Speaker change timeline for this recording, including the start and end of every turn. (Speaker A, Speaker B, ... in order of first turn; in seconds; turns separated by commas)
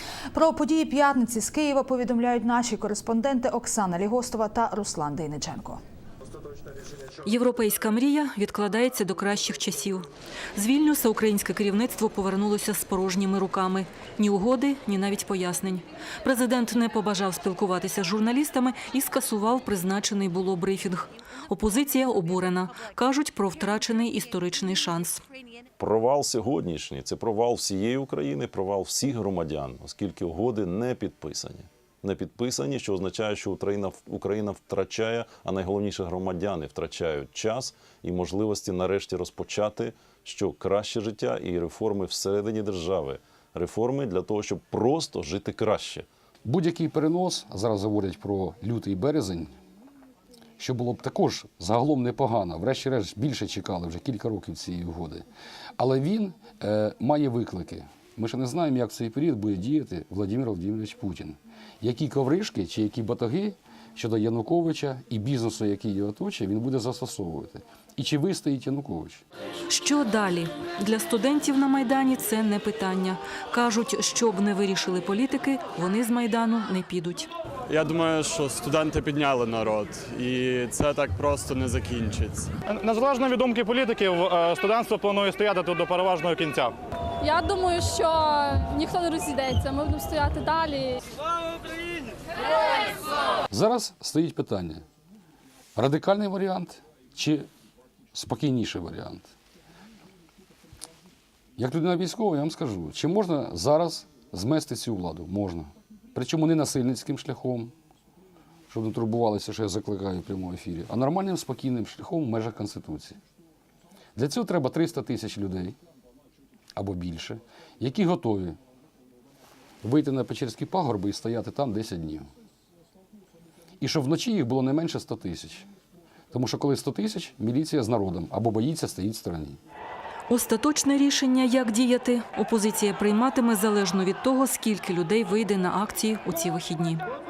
Speaker A: 0.3-5.8, Speaker B: 7.2-25.2, Speaker C: 25.8-46.0, Speaker D: 46.4-49.5, Speaker D: 50.6-55.2, Speaker D: 55.8-69.2, Speaker B: 69.7-77.3, Speaker E: 77.7-82.5, Speaker F: 82.7-86.7, Speaker G: 87.2-91.0, Speaker D: 93.5-94.8, Speaker D: 95.8-97.5, Speaker D: 98.1-99.3, Speaker D: 101.6-107.7, Speaker D: 108.7-113.2, Speaker D: 114.2-115.8, Speaker D: 116.8-118.6, Speaker D: 119.8-122.3, Speaker D: 123.8-125.7, Speaker D: 126.3-129.6, Speaker B: 130.3-137.0